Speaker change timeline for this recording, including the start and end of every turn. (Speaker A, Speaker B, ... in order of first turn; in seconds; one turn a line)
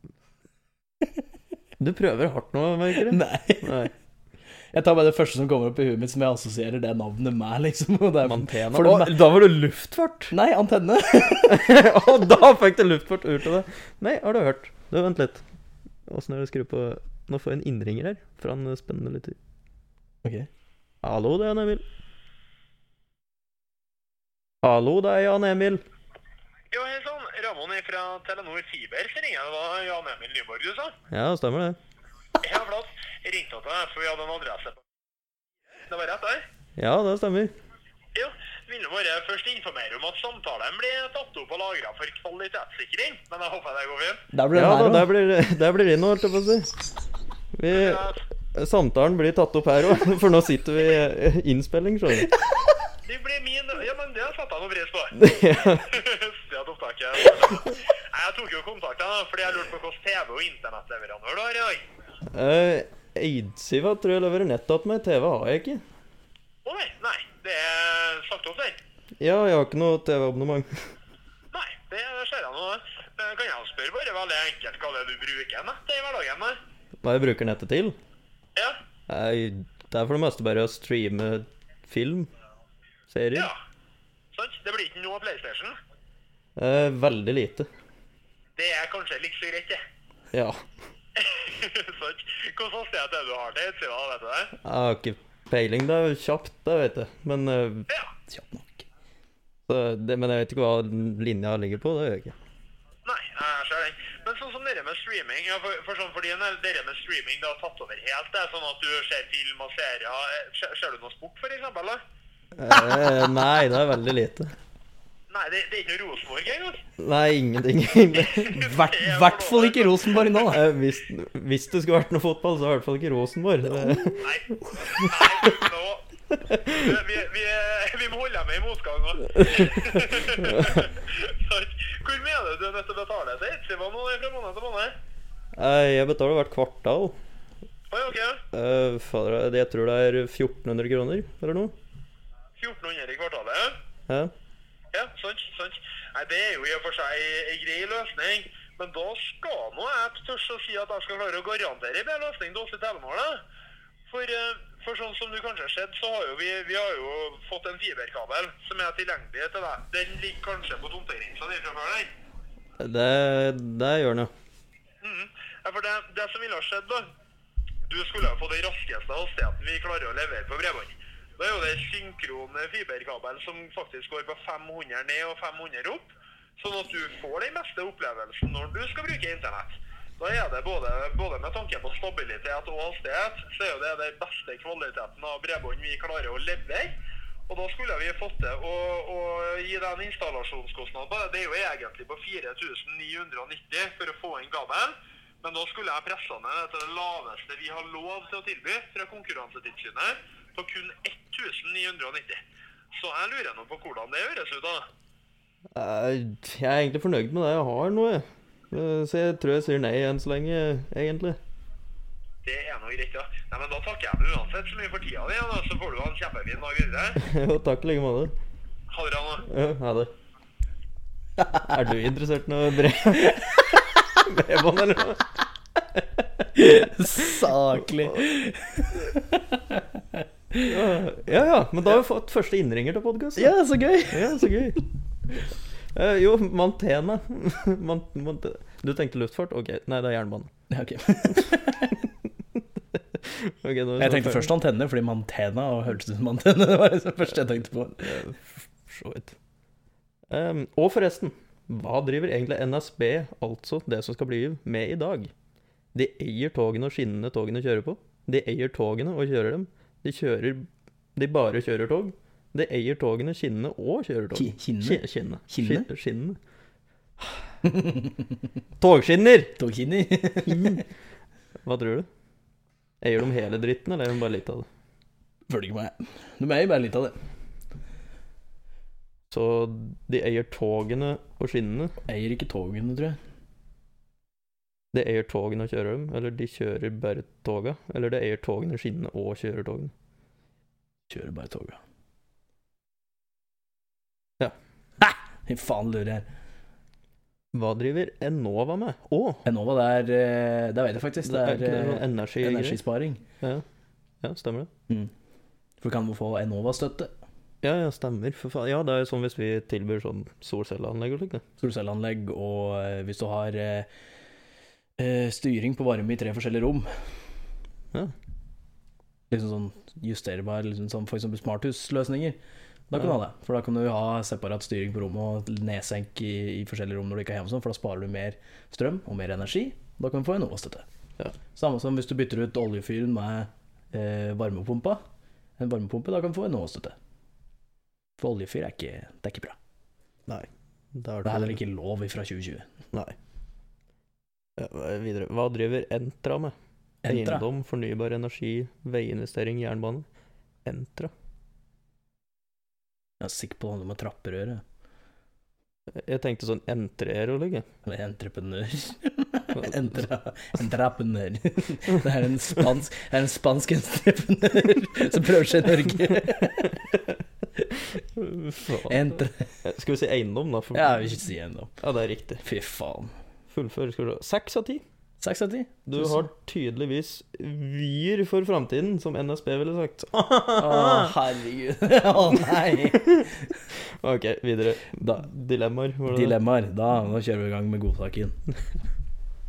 Speaker A: 1.8-3.9
Speaker B: 3.0-3.9
Speaker B: 4.7-9.2
Speaker A: 8.2-10.3
Speaker B: 10.3-11.6
Speaker A: 11.3-15.4
Speaker A: 16.1-19.4
Speaker B: 20.2-20.5
Speaker A: 21.0-21.8
Speaker A: 24.6-25.8
Speaker C: 26.7-31.0
Speaker A: 31.1-31.8
Speaker C: 32.4-34.8
Speaker C: 35.9-36.4
Speaker A: 36.8-37.5
Speaker C: 38.1-44.2
Speaker B: 44.3-45.1
Speaker A: 44.5-46.7
Speaker A: 47.6-52.4
Speaker C: 47.7-48.2
Speaker C: 53.0-61.8
Speaker A: 55.1-56.0
Speaker A: 62.3-65.8
Speaker C: 66.7-68.8
Speaker A: 69.2-70.9
Speaker C: 71.5-76.6
Speaker A: 77.0-78.0
Speaker A: 79.1-82.3
Speaker A: 83.1-83.5
Speaker C: 84.3-85.8
Speaker A: 86.6-87.7
Speaker C: 88.6-89.8
Speaker A: 90.3-90.7
Speaker C: 91.2-94.5
Speaker A: 94.6-97.9
Speaker B: 98.3-98.9
Speaker A: 99.7-102.3
Speaker C: 103.0-112.0
Speaker A: 112.6-114.5
Speaker C: 115.3-116.8
Speaker A: 117.0-118.7
Speaker C: 118.1-120.4
Speaker B: 118.6-120.6
Speaker A: 120.5-124.3
Speaker B: 123.7-124.2
Speaker C: 124.2-126.1
Speaker A: 126.3-127.0
Speaker C: 126.6-135.0
Speaker A: 129.3-130.9
Speaker A: 135.6-137.2
Speaker C: 137.9-138.4
Speaker A: 138.5-141.7
Speaker C: 142.6-143.8
Speaker C: 144.9-153.4
Speaker C: 154.1-162.1
Speaker A: 162.8-164.3
Speaker C: 165.0-167.1
Speaker C: 167.9-176.0
Speaker C: 176.6-186.9
Speaker C: 187.5-202.4
Speaker C: 202.9-204.9
Speaker A: 205.8-211.4
Speaker C: 212.4-217.2
Speaker A: 217.2-218.3
Speaker C: 218.9-219.5
Speaker A: 219.5-220.1
Speaker A: 221.6-225.3
Speaker A: 225.9-226.2
Speaker B: 226.5-230.7
Speaker A: 230.6-233.5
Speaker B: 233.4-234.6
Speaker A: 234.1-234.8
Speaker A: 235.9-240.5
Speaker B: 240.7-242.1
Speaker A: 242.9-244.5
Speaker B: 244.0-248.2
Speaker A: 248.0-249.4
Speaker A: 250.3-255.3
Speaker A: 255.9-266.4
Speaker B: 264.4-265.9
Speaker B: 267.6-268.3
Speaker A: 268.8-269.6
Speaker B: 269.6-270.8
Speaker A: 270.5-270.8
Speaker A: 271.6-272.1
Speaker A: 273.0-274.7
Speaker B: 275.5-277.2
Speaker A: 279.3-281.9
Speaker B: 282.1-283.2
Speaker A: 284.9-289.9
Speaker B: 291.1-291.8
Speaker B: 295.0-296.2
Speaker A: 297.5-299.4
Speaker B: 299.4-303.2
Speaker A: 301.2-302.8
Speaker A: 304.2-304.7
Speaker B: 305.8-307.1
Speaker A: 307.6-311.4
Speaker B: 311.6-313.9
Speaker B: 315.0-316.9
Speaker B: 319.3-322.4
Speaker B: 322.9-330.9
Speaker B: 331.6-335.0
Speaker B: 335.6-337.0
Speaker B: 338.2-339.6
Speaker A: 340.3-341.6
Speaker B: 341.2-342.7
Speaker A: 344.6-346.6
Speaker B: 347.0-347.5
Speaker A: 347.1-350.1
Speaker A: 350.6-351.1
Speaker B: 353.2-354.6
Speaker A: 355.9-357.7
Speaker B: 357.9-366.9
Speaker A: 367.9-369.1
Speaker B: 368.8-369.5
Speaker A: 369.6-371.1
Speaker B: 370.7-371.7
Speaker A: 371.8-372.4
Speaker B: 372.4-373.1
Speaker A: 373.5-374.8
Speaker B: 375.2-376.2
Speaker A: 375.9-381.1
Speaker B: 380.6-383.3
Speaker A: 382.4-383.3
Speaker A: 384.0-386.4
Speaker B: 386.1-388.4